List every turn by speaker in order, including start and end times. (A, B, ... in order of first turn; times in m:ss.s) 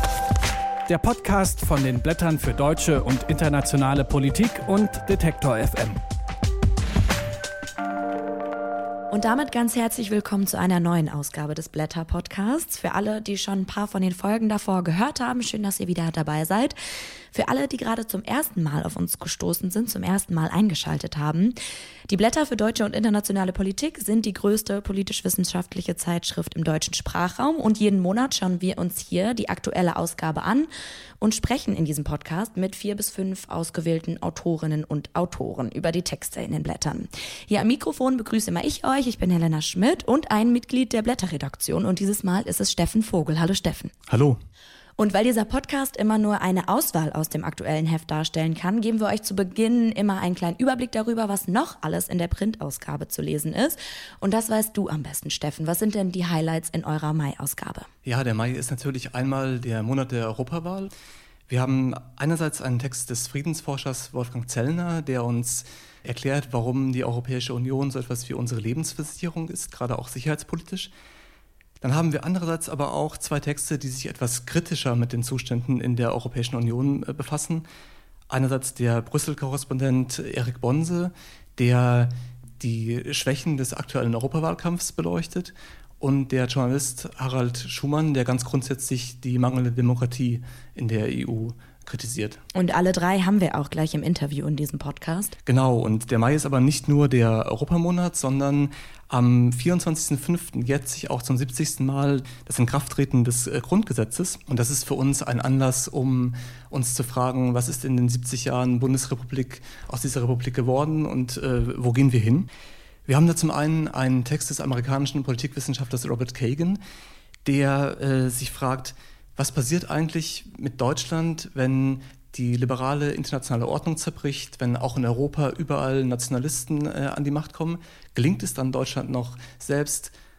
0:00.9-0:06.0 A
0:09.1-0:16.8 B
0:17.3-0:21.6 B
0:22.1-0:43.9 B
0:44.1-0:44.4 C
0:45.0-0:57.9 B
0:58.0-1:00.9 C
1:01.5-1:10.9 C
1:11.8-1:17.6 C
1:18.3-1:32.4 C
1:32.5-1:35.3 B
1:35.4-1:52.5 C
1:53.0-1:56.8 C
1:57.4-2:10.1 C